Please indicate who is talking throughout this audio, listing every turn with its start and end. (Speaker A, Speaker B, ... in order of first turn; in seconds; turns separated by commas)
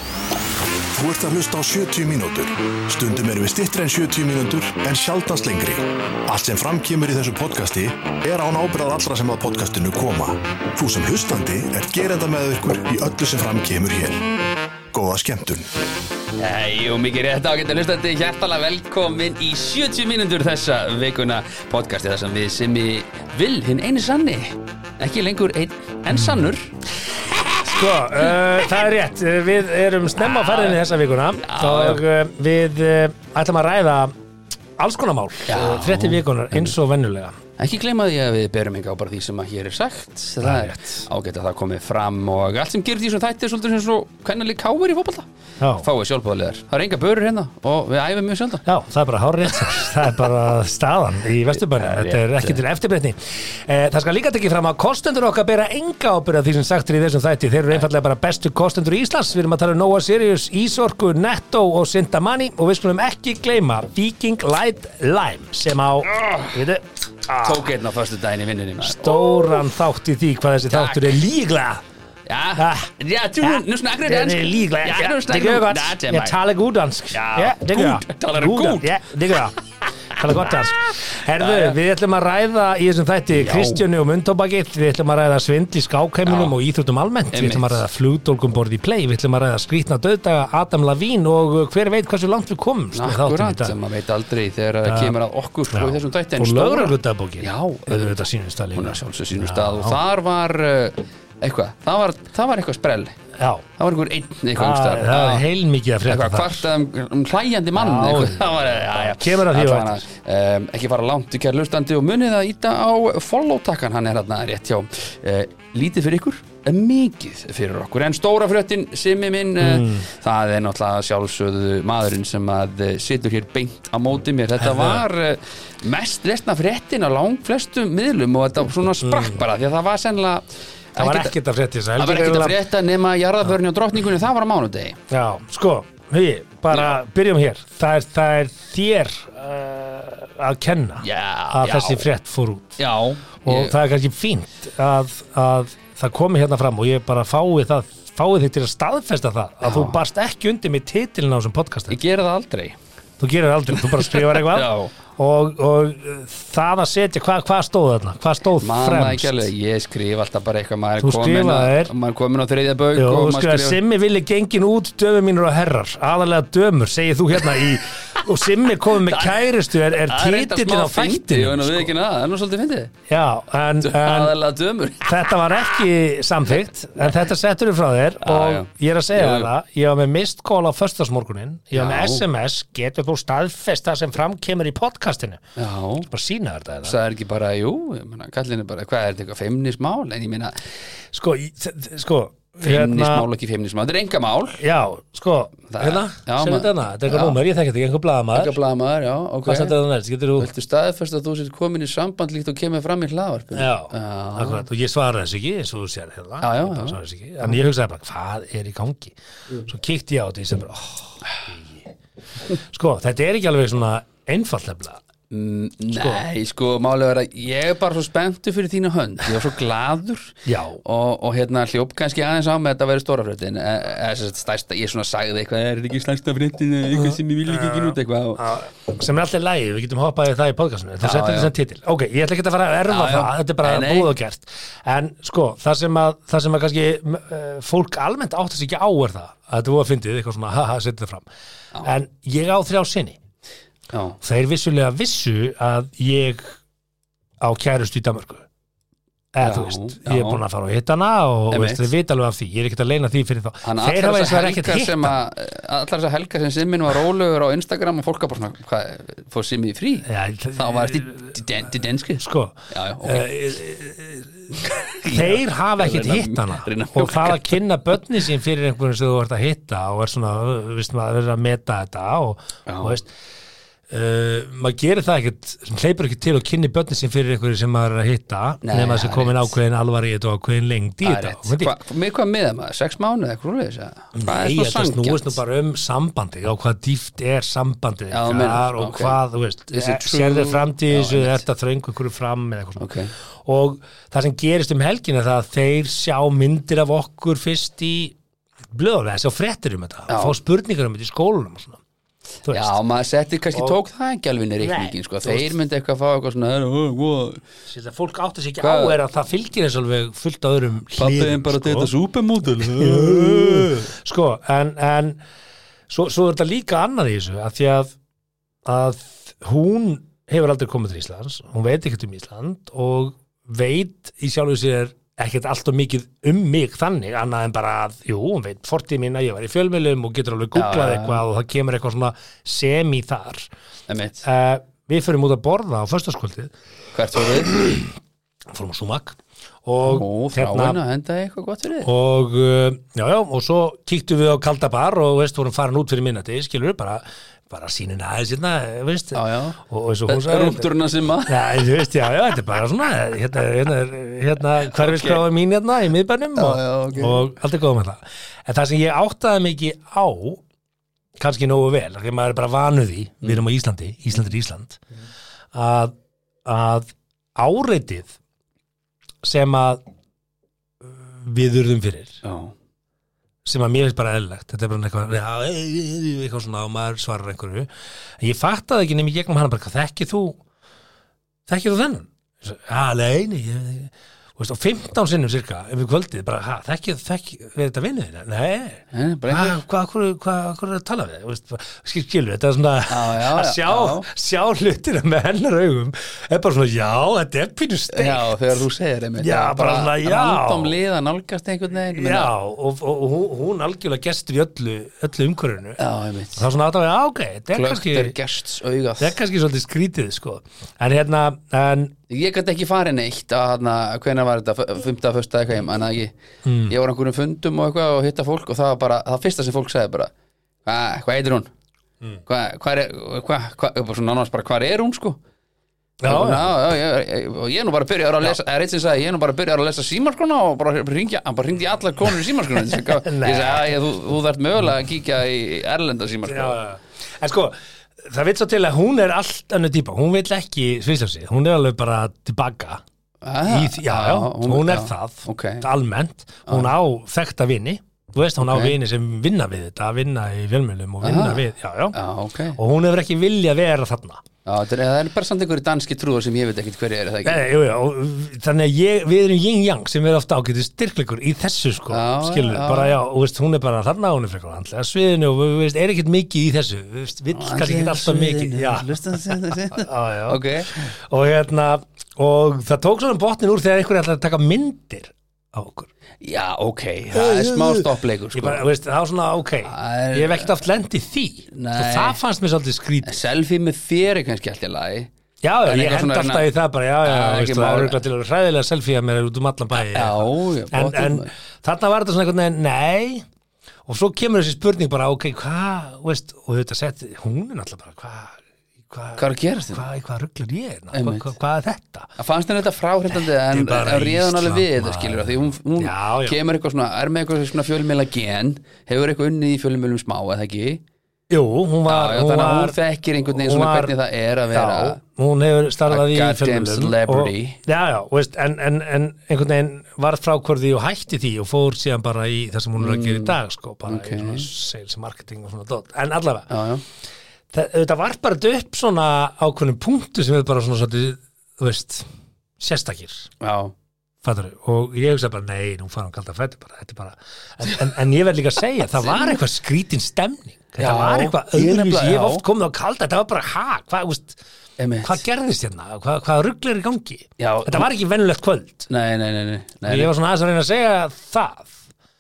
Speaker A: 0.9-14.3, Speaker A: 14.9-15.7, Speaker B: 16.4-26.7, Speaker C: 26.1-26.4, Speaker C: 27.5-34.1, Speaker B: 30.4-30.8, Speaker B: 31.4-32.0, Speaker C: 34.8-37.4, Speaker B: 35.5-36.8, Speaker B: 37.6-48.6, Speaker C: 40.4-41.1, Speaker C: 45.6-45.9, Speaker C: 48.6-67.7, Speaker B: 51.5-52.6, Speaker B: 66.1-66.5, Speaker B: 67.4-69.6, Speaker C: 68.8-71.8, Speaker B: 70.7-71.2, Speaker B: 72.3-76.4, Speaker C: 72.6-72.9, Speaker C: 73.4-79.6, Speaker B: 77.1-78.9, Speaker C: 80.1-93.8, Speaker B: 81.4-81.8, Speaker B: 83.3-83.8, Speaker B: 86.3-86.5, Speaker B: 87.3-87.8, Speaker B: 92.9-98.2, Speaker C: 94.9-95.2, Speaker C: 95.7-100.0, Speaker B: 98.7-103.2, Speaker C: 103.3-103.7, Speaker B: 103.8-105.5, Speaker C: 104.5-106.7, Speaker B: 106.1-131.4, Speaker C: 107.7-110.0, Speaker C: 119.6-120.1, Speaker C: 124.6-125.1, Speaker C: 129.0-129.4, Speaker C: 131.0-132.6, Speaker B: 132.0-135.0, Speaker C: 135.1-142.8, Speaker B: 136.7-137.0, Speaker B: 141.0-142.1, Speaker B: 142.8-143.8, Speaker C: 143.4-152.0, Speaker B: 149.6-150.0, Speaker B: 151.9-152.8, Speaker C: 153.2-159.5, Speaker B: 153.7-154.9, Speaker B: 158.6-163.8, Speaker C: 161.0-161.9, Speaker C: 162.9-171.9, Speaker B: 168.9-172.9, Speaker C: 173.1-174.4, Speaker B: 173.8-175.3, Speaker C: 175.0-185.4, Speaker B: 178.2-179.5, Speaker B: 181.7-182.2, Speaker B: 185.6-186.1, Speaker C: 186.1-187.0, Speaker B: 186.8-190.7, Speaker C: 191.1-193.3, Speaker B: 192.6-194.6, Speaker C: 194.6-198.6, Speaker B: 195.7-197.4, Speaker B: 198.3-199.8, Speaker C: 199.5-200.5, Speaker B: 200.4-204.6, Speaker C: 203.5-211.9, Speaker B: 206.4-207.6, Speaker C: 212.5-215.0, Speaker B: 215.3-228.4, Speaker C: 215.9-216.2, Speaker C: 220.4-220.8, Speaker C: 226.9-241.3, Speaker B: 231.0-231.5, Speaker B: 232.9-234.1, Speaker C: 241.8-243.2, Speaker B: 243.9-244.2, Speaker C: 244.2-246.6, Speaker C: 247.4-248.5, Speaker C: 249.3-255.2, Speaker B: 249.4-250.4, Speaker B: 251.5-251.9, Speaker B: 253.6-263.3, Speaker C: 260.1-261.4, Speaker C: 262.2-273.1, Speaker B: 264.6-267.6, Speaker B: 272.7-273.0, Speaker C: 273.9-281.7, Speaker B: 278.6-279.6, Speaker B: 281.0-285.4, Speaker C: 284.1-298.2, Speaker B: 288.1-289.2, Speaker B: 289.7-291.4, Speaker B: 292.8-293.1, Speaker C: 298.7-301.8, Speaker B: 300.1-300.4, Speaker C: 302.4-302.8, Speaker B: 302.5-307.4, Speaker C: 304.6-305.6, Speaker C: 307.7-311.9, Speaker B: 308.6-309.0, Speaker B: 311.0-313.9, Speaker C: 312.6-315.2, Speaker C: 315.9-317.9, Speaker C: 318.6-333.5, Speaker B: 330.5-331.2, Speaker B: 333.9-334.3, Speaker C: 334.2-336.5, Speaker B: 336.9-337.6, Speaker C: 337.1-338.0, Speaker C: 338.5-340.8, Speaker B: 339.8-341.9, Speaker C: 341.9-350.7, Speaker B: 349.1-351.8, Speaker C: 351.3-360.4, Speaker B: 354.7-355.2, Speaker B: 356.4-357.3, Speaker C: 361.2-364.8, Speaker C: 365.5-365.9, Speaker C: 366.4-368.1, Speaker C: 369.2-369.8, Speaker C: 370.8-372.2, Speaker B: 372.2-372.6, Speaker C: 373.4-377.7, Speaker C: 378.2-380.4, Speaker C: 381.5-398.6, Speaker B: 388.9-389.6, Speaker B: 392.9-394.1, Speaker B: 397.9-402.3, Speaker C: 399.2-400.8, Speaker C: 401.9-405.8, Speaker B: 405.8-406.5, Speaker C: 406.4-408.1, Speaker B: 407.5-409.2, Speaker C: 409.0-411.9, Speaker B: 412.1-416.1, Speaker C: 416.4-416.8, Speaker B: 416.7-420.1, Speaker B: 420.6-421.5, Speaker B: 422.2-425.2, Speaker C: 426.0-426.6, Speaker B: 426.1-436.6, Speaker C: 432.6-433.8, Speaker C: 436.3-442.8, Speaker B: 443.2-445.7, Speaker C: 443.5-452.0, Speaker B: 446.5-446.7, Speaker B: 448.4-448.8, Speaker B: 451.0-451.4, Speaker B: 451.9-452.6, Speaker C: 452.6-454.2, Speaker B: 454.5-457.4, Speaker C: 457.2-475.9, Speaker B: 461.9-463.0, Speaker B: 467.3-470.9, Speaker B: 476.2-478.7, Speaker C: 477.1-483.1, Speaker B: 479.6-480.6, Speaker B: 481.5-482.2, Speaker B: 483.0-485.1, Speaker C: 485.4-493.3, Speaker B: 485.6-486.5, Speaker B: 487.0-488.0, Speaker B: 489.8-491.3, Speaker C: 493.9-502.1, Speaker B: 499.2-499.9, Speaker B: 500.9-501.3, Speaker B: 502.2-510.8, Speaker C: 503.1-506.4, Speaker C: 511.3-513.9, Speaker B: 511.9-515.0, Speaker C: 514.5-526.5, Speaker B: 515.9-517.6, Speaker B: 522.8-524.5, Speaker B: 526.5-526.8, Speaker C: 527.5-532.1, Speaker C: 532.6-533.3, Speaker B: 533.4-533.7, Speaker C: 534.2-544.4, Speaker B: 538.9-539.4, Speaker B: 540.8-542.4, Speaker B: 544.8-545.2, Speaker C: 545.0-548.9, Speaker B: 547.4-547.9, Speaker B: 548.9-550.1, Speaker C: 549.9-551.8